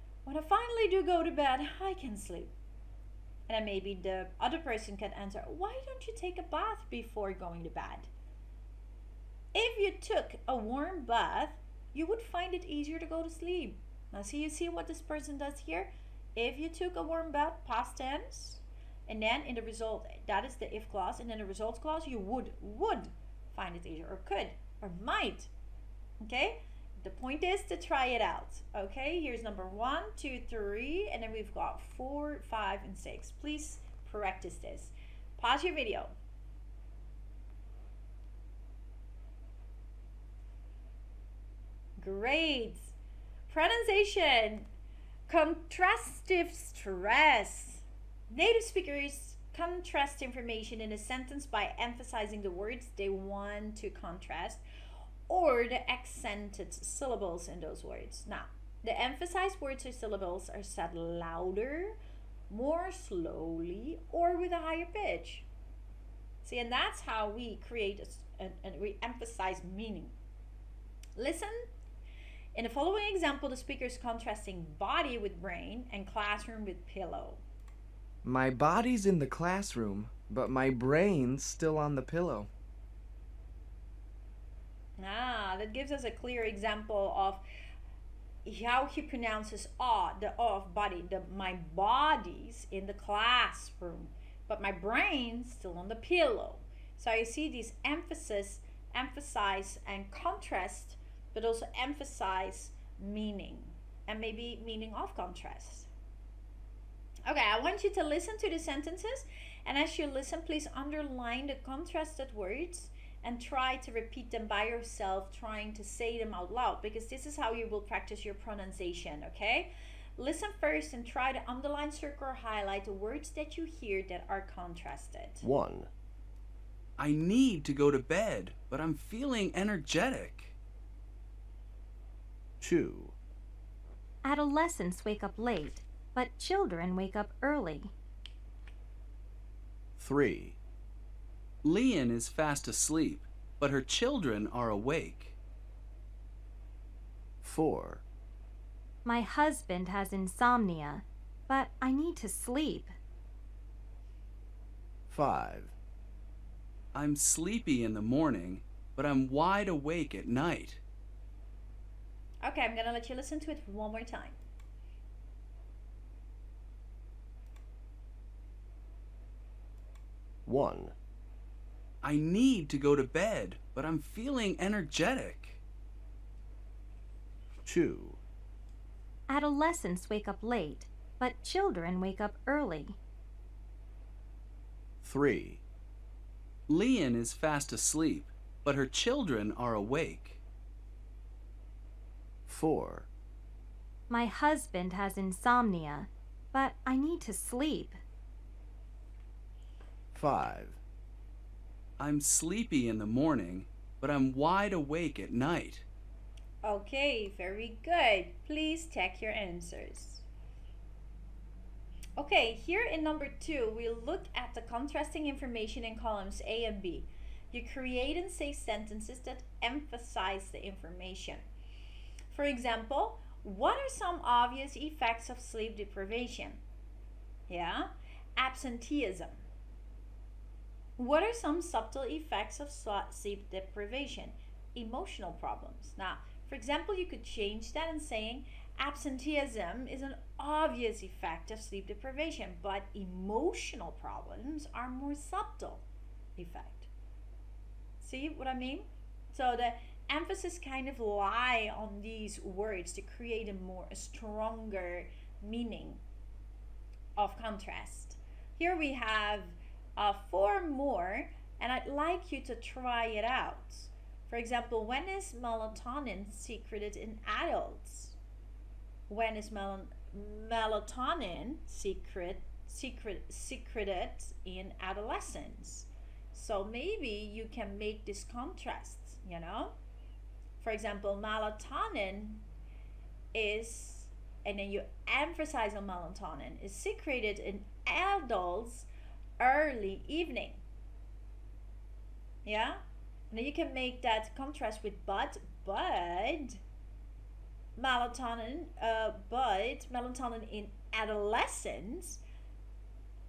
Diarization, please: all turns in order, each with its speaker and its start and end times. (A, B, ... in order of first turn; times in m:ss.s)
0:00.2-0:02.5 A
0:03.5-0:08.1 A
0:09.5-0:25.5 A
0:26.2-0:36.1 A
0:42.0-0:42.9 A
0:43.5-0:44.7 A
0:45.3-0:54.6 A
0:55.3-1:02.0 A
1:02.5-1:05.4 A
1:06.4-1:10.1 A
1:11.2-1:11.7 A
1:12.6-1:17.4 A
1:18.2-1:22.5 B
1:25.0-1:27.4 A
1:28.4-1:45.9 A
1:47.3-2:05.4 A
2:05.4-2:05.9 C
2:07.0-2:10.6 D
2:12.6-2:13.1 C
2:14.2-2:17.9 E
2:20.0-2:20.6 C
2:21.6-2:25.4 D
2:27.4-2:28.0 C
2:29.0-2:32.9 E
2:35.1-2:35.8 C
2:36.9-2:40.8 D
2:42.4-2:44.4 A
2:50.4-2:50.9 C
2:52.0-2:55.6 D
2:57.6-2:58.2 C
2:59.3-3:03.0 E
3:05.0-3:05.6 C
3:06.7-3:10.4 D
3:12.5-3:13.1 C
3:14.1-3:18.0 E
3:20.1-3:20.8 C
3:22.0-3:25.8 D
3:26.6-3:30.2 A
3:32.2-3:41.4 A
3:42.3-3:46.6 A
3:47.5-3:49.4 A
3:51.0-4:05.8 A
4:06.4-4:06.9 A
4:08.0-4:16.0 A
4:17.2-4:28.2 A
4:29.1-4:39.7 A
4:40.6-4:42.4 A
4:43.3-4:48.9 A
4:49.4-4:50.6 A
4:52.4-4:52.8 A
4:53.3-4:56.6 A
4:57.8-5:02.2 A